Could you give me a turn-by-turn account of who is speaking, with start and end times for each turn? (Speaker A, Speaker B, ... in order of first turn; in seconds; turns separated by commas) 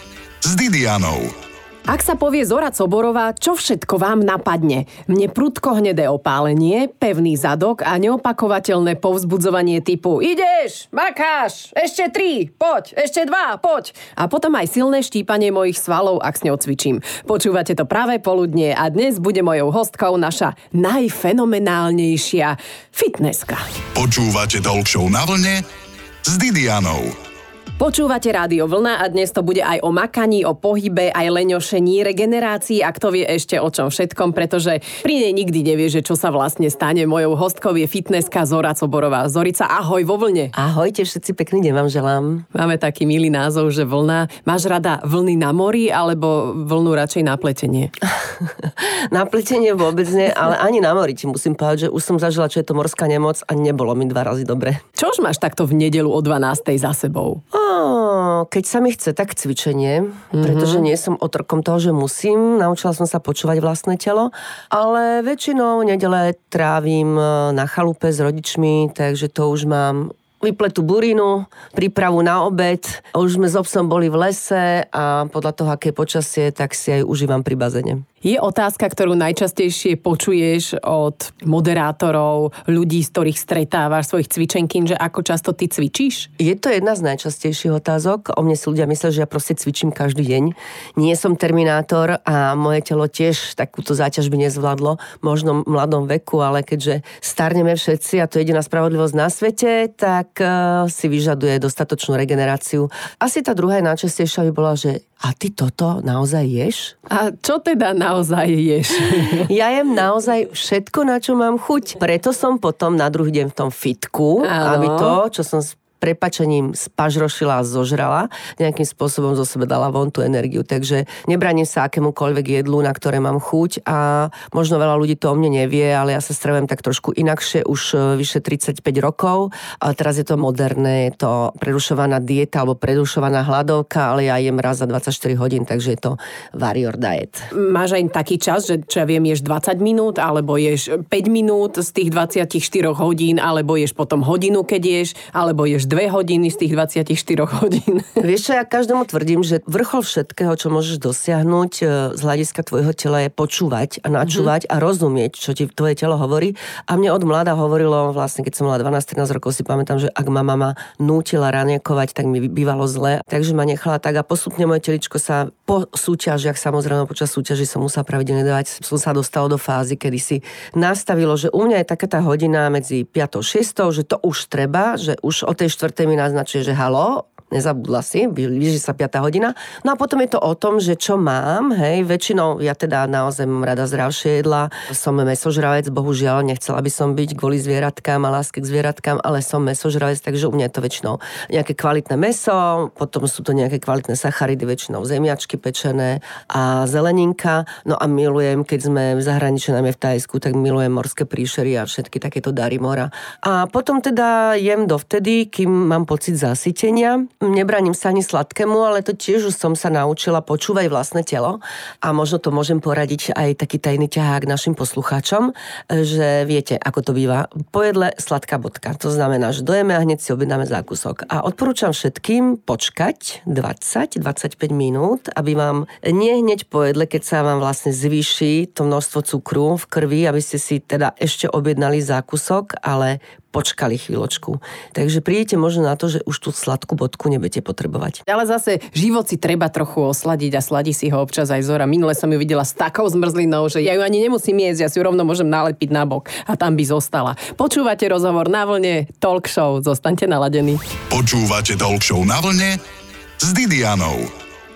Speaker A: 0.4-1.3, Speaker B: 1.9-23.6, Speaker A: 23.9-25.6, Speaker A: 26.2-27.1, Speaker B: 27.8-40.5, Speaker C: 40.5-42.5, Speaker B: 42.5-47.9, Speaker C: 48.4-54.8, Speaker B: 55.0-57.4, Speaker C: 57.5-78.0, Speaker B: 60.4-60.9, Speaker B: 78.2-86.3, Speaker C: 86.4-107.0, Speaker B: 107.1-109.5, Speaker C: 109.5-137.5, Speaker B: 114.4-115.2, Speaker B: 137.5-148.2, Speaker C: 148.2-238.2, Speaker B: 238.3-250.8, Speaker A: 251.1-252.8, Speaker A: 253.4-254.3